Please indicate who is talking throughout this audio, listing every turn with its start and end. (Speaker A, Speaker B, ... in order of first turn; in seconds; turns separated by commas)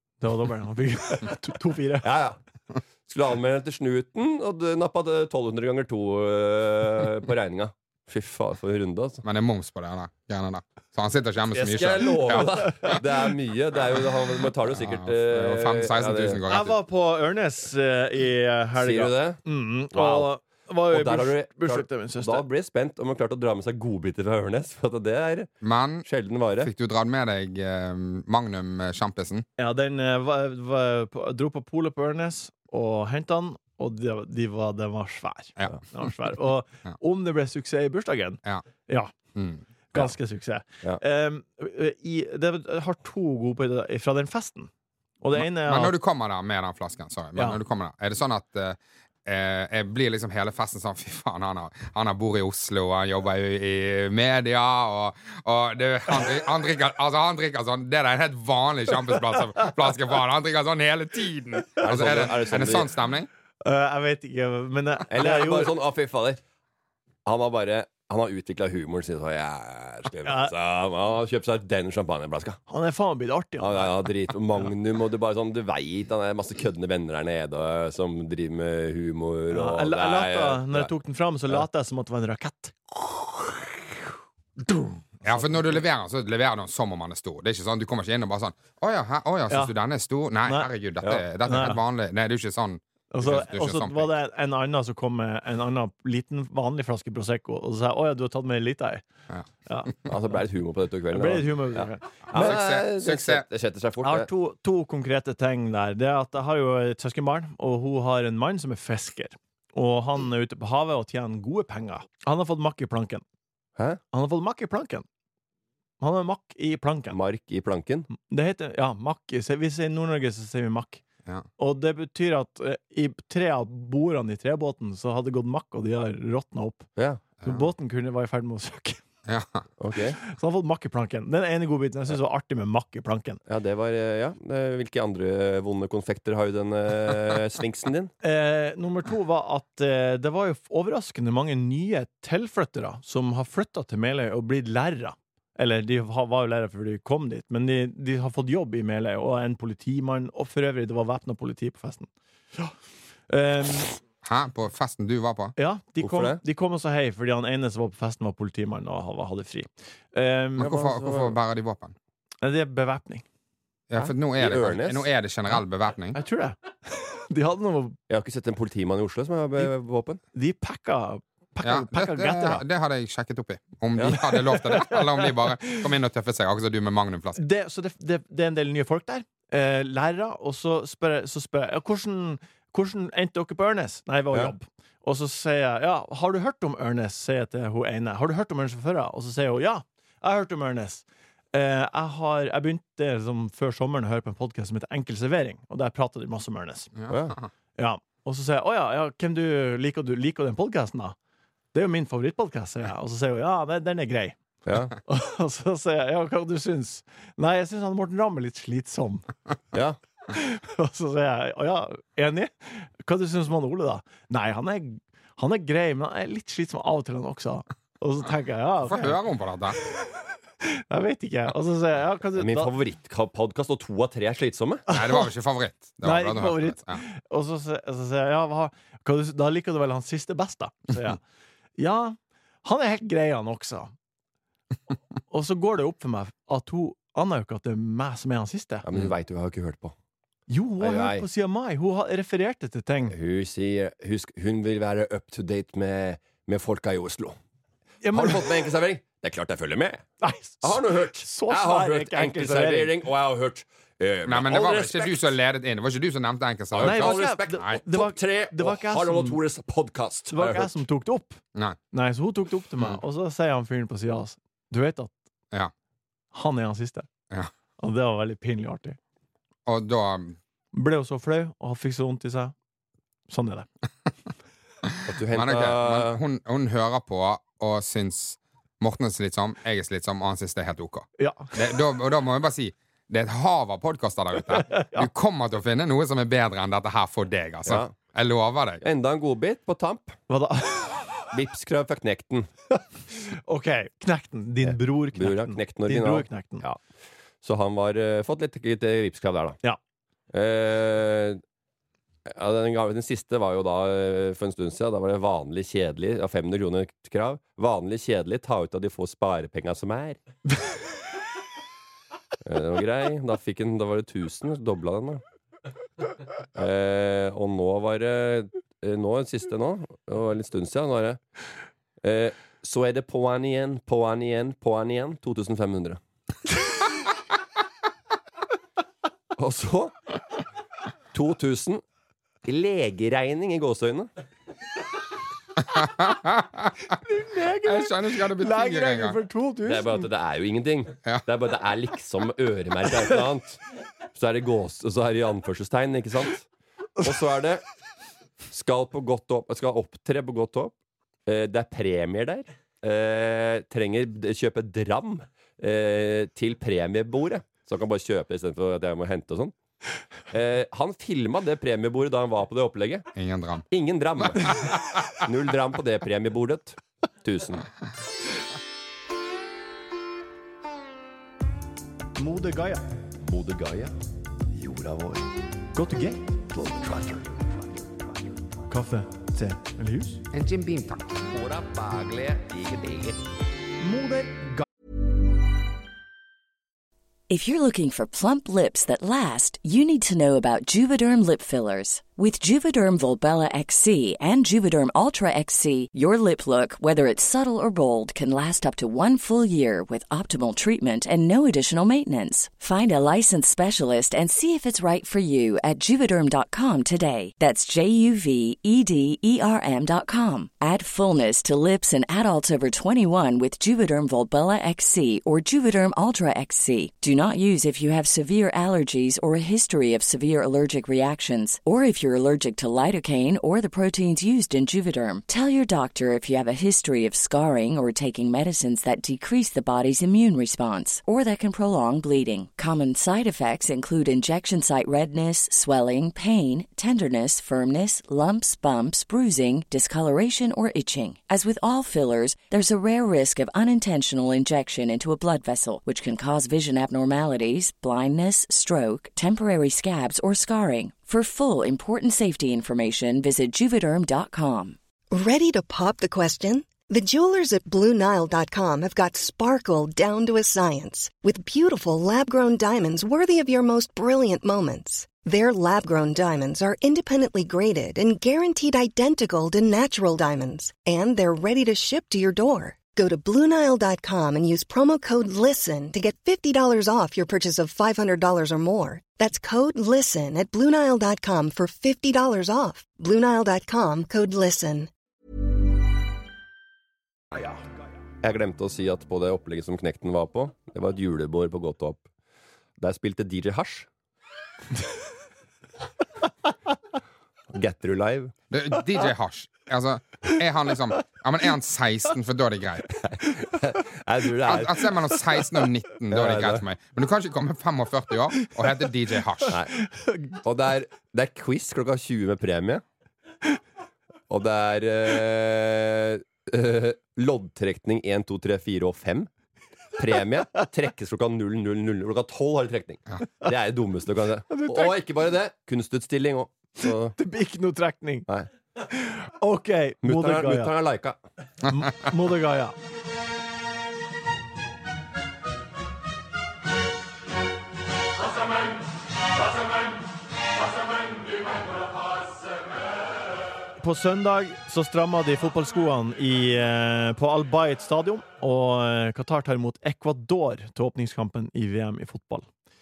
Speaker A: 0.2-2.1, Speaker B: 2.0-2.4, Speaker B: 3.0-9.2, Speaker C: 9.2-13.0, Speaker B: 11.5-16.4, Speaker C: 14.7-16.8, Speaker A: 16.5-22.4, Speaker B: 18.8-20.3, Speaker B: 20.9-25.5, Speaker C: 25.6-26.1, Speaker B: 26.0-26.7, Speaker C: 26.6-29.4, Speaker A: 29.6-39.1, Speaker C: 39.3-39.6, Speaker A: 39.9-44.7, Speaker A: 45.2-45.9, Speaker C: 45.4-63.3, Speaker B: 61.8-62.9, Speaker A: 63.6-65.7, Speaker B: 65.1-66.4, Speaker B: 67.2-72.6, Speaker A: 70.2-70.5, Speaker A: 72.7-74.1, Speaker B: 73.6-80.9, Speaker A: 79.5-83.8, Speaker A: 84.6-85.8, Speaker C: 85.2-94.1, Speaker A: 90.4-90.7, Speaker A: 91.5-91.8, Speaker A: 93.1-99.0, Speaker A: 99.7-100.1, Speaker B: 100.1-104.3, Speaker A: 101.1-102.5, Speaker C: 102.3-103.4, Speaker A: 104.0-113.2, Speaker A: 114.1-115.0, Speaker A: 116.0-117.2, Speaker B: 117.1-118.1, Speaker A: 118.1-121.0, Speaker A: 121.6-126.9, Speaker B: 127.0-127.2, Speaker A: 127.4-129.0, Speaker C: 129.2-129.7, Speaker B: 129.8-130.2, Speaker A: 130.2-133.4, Speaker B: 133.5-138.1, Speaker A: 138.2-152.7, Speaker A: 153.3-154.0, Speaker C: 154.2-155.5, Speaker A: 155.6-160.7, Speaker B: 156.0-156.4, Speaker C: 160.6-161.9, Speaker B: 160.6-161.3, Speaker A: 162.4-163.2, Speaker C: 163.9-166.2, Speaker B: 163.9-165.1, Speaker A: 166.1-168.0, Speaker B: 168.1-170.2, Speaker A: 170.3-172.6, Speaker C: 171.6-177.4, Speaker A: 174.3-175.8, Speaker A: 177.3-196.9, Speaker C: 197.0-197.5, Speaker B: 197.1-197.4, Speaker A: 197.8-201.2, Speaker A: 201.7-204.4, Speaker B: 204.7-204.9, Speaker A: 205.1-209.2, Speaker B: 209.7-210.0, Speaker A: 210.3-219.2, Speaker C: 218.8-219.8, Speaker A: 219.8-222.7, Speaker B: 222.3-224.8, Speaker A: 224.9-225.2, Speaker C: 224.9-227.0, Speaker A: 226.0-231.2, Speaker A: 231.8-233.9, Speaker A: 235.3-238.8, Speaker B: 238.8-239.9, Speaker A: 240.5-243.1, Speaker B: 240.8-241.2, Speaker B: 243.1-247.4, Speaker A: 248.0-248.4, Speaker B: 248.1-250.0, Speaker A: 250.2-252.9, Speaker B: 250.6-255.3, Speaker C: 254.3-257.8, Speaker B: 256.7-260.8, Speaker A: 256.8-259.4, Speaker A: 260.3-261.4, Speaker A: 261.9-265.1, Speaker A: 266.3-267.1, Speaker A: 267.8-269.0, Speaker C: 269.6-270.4, Speaker A: 270.7-272.5, Speaker A: 273.3-273.7, Speaker C: 274.9-288.8, Speaker B: 275.1-276.2, Speaker A: 281.2-281.5, Speaker A: 284.6-285.1, Speaker B: 287.6-287.9, Speaker B: 288.8-290.2, Speaker A: 290.3-291.2, Speaker B: 291.3-292.5, Speaker A: 292.7-296.6, Speaker B: 294.6-296.8, Speaker B: 297.4-299.6, Speaker B: 300.3-301.4, Speaker B: 302.3-310.2, Speaker B: 312.4-315.2, Speaker B: 316.5-321.2, Speaker B: 322.0-326.0, Speaker B: 329.4-329.9, Speaker B: 331.1-331.8, Speaker B: 332.4-334.1, Speaker C: 335.6-336.9, Speaker A: 337.0-340.1, Speaker C: 337.6-339.2, Speaker B: 339.6-343.6, Speaker B: 344.1-346.5, Speaker B: 347.0-347.6, Speaker B: 348.5-350.7, Speaker B: 351.2-359.5, Speaker B: 360.3-363.1, Speaker C: 363.1-363.6, Speaker B: 363.7-367.7, Speaker C: 364.2-364.5, Speaker A: 372.2-372.8, Speaker B: 373.3-373.9, Speaker D: 374.5-375.3, Speaker A: 375.7-376.5, Speaker D: 376.6-378.0, Speaker A: 378.7-380.2, Speaker C: 380.3-381.1, Speaker D: 381.2-383.2, Speaker A: 383.8-384.6, Speaker E: 387.3-454.8, Speaker F: 455.1-484.9, Speaker B: 488.2-492.1, Speaker B: 492.8-493.9, Speaker B: 497.5-498.3, Speaker C: 498.5-502.9, Speaker B: 503.0-504.9, Speaker C: 504.4-509.6, Speaker B: 506.1-506.6, Speaker A: 509.4-510.4, Speaker B: 510.4-512.8, Speaker B: 514.3-519.3, Speaker B: 520.0-527.1, Speaker A: 524.5-525.0, Speaker A: 527.1-528.2, Speaker A: 528.9-530.7, Speaker B: 530.0-531.2, Speaker A: 531.7-532.7, Speaker A: 543.8-552.5